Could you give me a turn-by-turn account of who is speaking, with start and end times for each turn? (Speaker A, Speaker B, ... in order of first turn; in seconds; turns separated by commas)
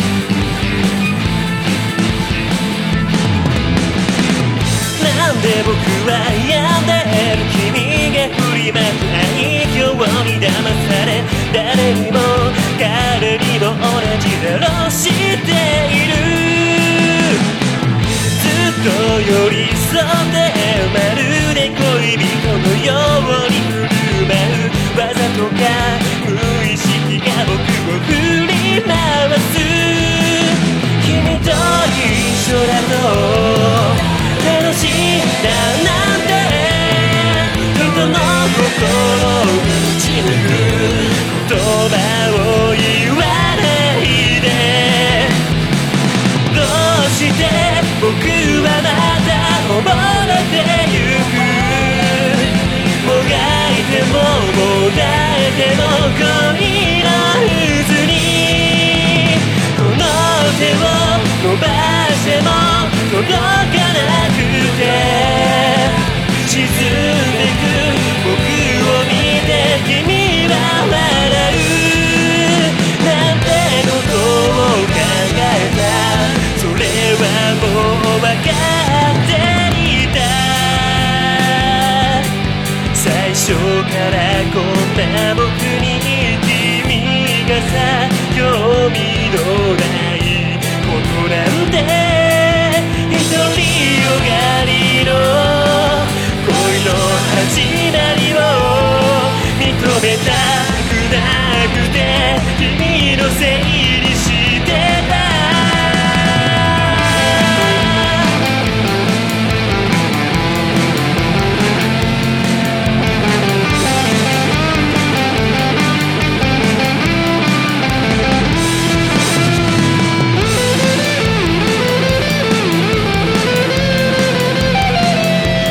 Speaker A: 4.9-17.4, Speaker A: 18.3-45.4, Speaker A: 46.5-82.3, Speaker A: 82.9-108.3